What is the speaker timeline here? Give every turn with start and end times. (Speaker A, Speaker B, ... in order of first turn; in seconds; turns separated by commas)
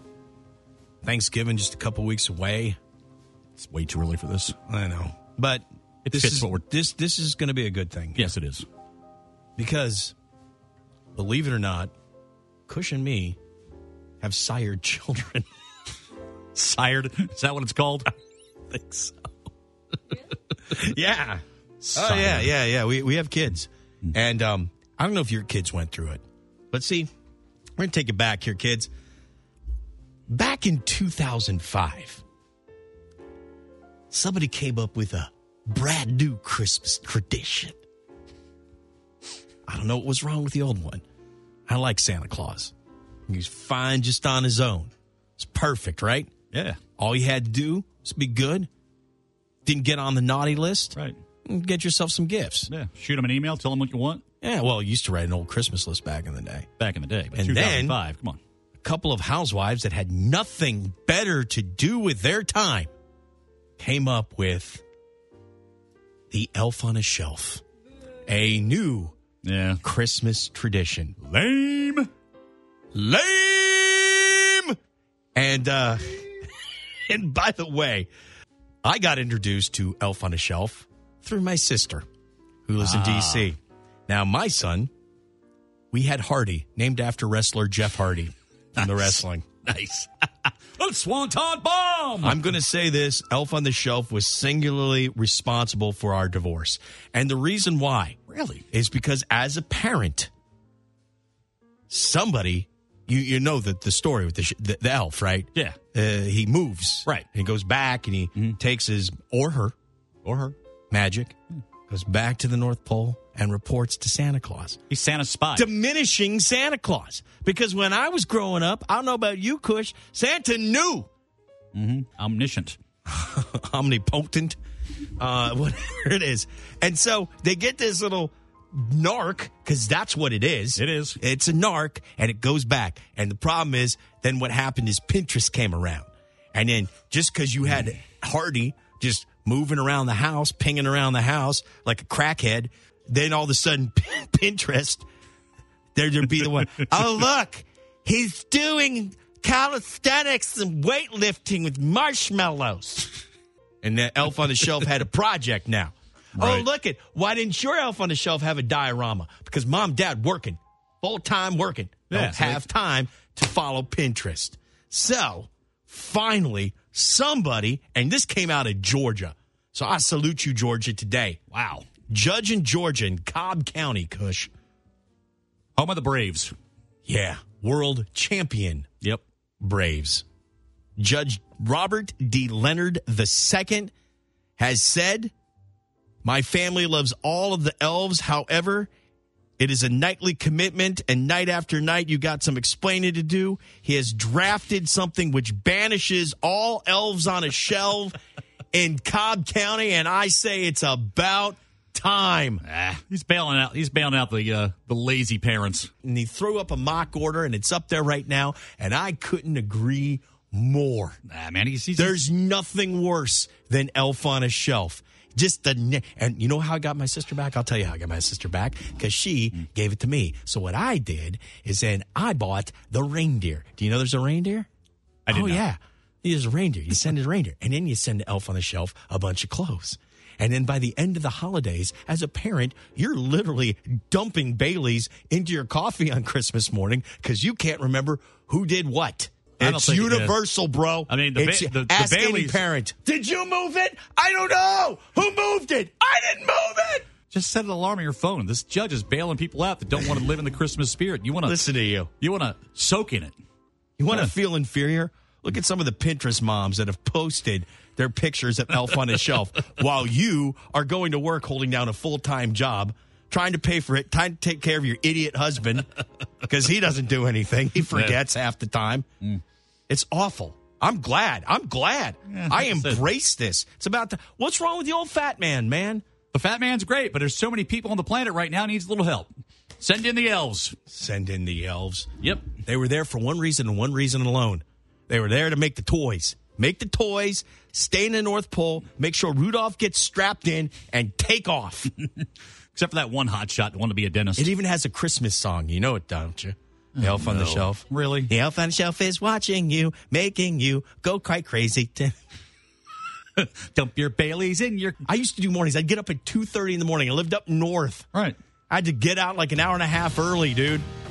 Speaker A: 1.0-2.8, Speaker B: 3.6-4.5, Speaker A: 4.7-8.3, Speaker B: 6.1-6.6, Speaker B: 8.2-8.7, Speaker A: 9.6-10.2, Speaker A: 11.2-11.9, Speaker A: 12.7-13.4, Speaker A: 14.2-15.5, Speaker B: 16.6-18.1, Speaker A: 18.7-19.1, Speaker A: 20.7-27.1, Speaker B: 21.9-22.5, Speaker A: 27.8-28.9, Speaker A: 30.3-32.2, Speaker A: 34.1-37.8, Speaker A: 39.7-41.0, Speaker A: 41.7-42.7, Speaker A: 43.3-46.3, Speaker B: 46.5-46.8, Speaker A: 47.0-48.7, Speaker A: 49.6-52.7, Speaker B: 52.7-54.2, Speaker A: 54.4-56.7, Speaker B: 56.8-58.4, Speaker A: 57.3-58.0, Speaker A: 58.8-62.9, Speaker A: 63.8-64.8, Speaker A: 66.3-67.6, Speaker A: 68.2-69.2, Speaker B: 69.4-69.8, Speaker A: 69.8-71.2, Speaker B: 71.2-72.1, Speaker A: 72.9-74.8, Speaker A: 75.3-76.4, Speaker A: 77.0-78.1, Speaker A: 78.8-82.0, Speaker A: 82.7-84.9, Speaker B: 82.8-83.5, Speaker A: 85.9-89.5, Speaker B: 88.8-92.5, Speaker A: 92.2-98.2, Speaker B: 98.3-98.6, Speaker A: 98.7-100.3, Speaker A: 101.9-109.8, Speaker B: 110.2-110.5, Speaker A: 110.9-111.3, Speaker A: 111.9-114.8, Speaker B: 114.9-115.7, Speaker A: 115.5-121.1, Speaker B: 121.7-122.8, Speaker A: 123.1-124.6, Speaker A: 125.2-145.1, Speaker B: 130.8-131.2, Speaker A: 145.9-153.2, Speaker A: 153.8-171.4, Speaker B: 156.4-156.7, Speaker B: 162.1-162.6, Speaker B: 171.5-171.9, Speaker A: 172.1-174.5, Speaker B: 175.8-176.5, Speaker A: 177.1-178.9, Speaker A: 179.6-180.2, Speaker A: 181.0-183.9, Speaker A: 184.6-185.3, Speaker A: 186.2-188.9, Speaker A: 189.6-198.2, Speaker A: 198.7-202.6, Speaker B: 202.7-205.9, Speaker A: 206.0-211.2, Speaker B: 211.3-212.2, Speaker A: 212.0-224.7, Speaker B: 225.3-225.6, Speaker A: 225.3-247.1, Speaker B: 239.6-240.4, Speaker B: 241.1-242.6, Speaker B: 247.3-251.6, Speaker A: 251.4-252.1, Speaker B: 252.2-253.4, Speaker A: 254.0-265.9, Speaker A: 266.4-269.1, Speaker A: 269.9-276.0, Speaker B: 272.3-273.0, Speaker B: 276.3-279.3, Speaker B: 279.8-280.8, Speaker A: 280.9-291.9, Speaker B: 292.8-294.5, Speaker A: 294.4-302.2, Speaker B: 297.0-298.3, Speaker B: 303.4-305.0, Speaker A: 305.1-308.1, Speaker A: 308.7-310.9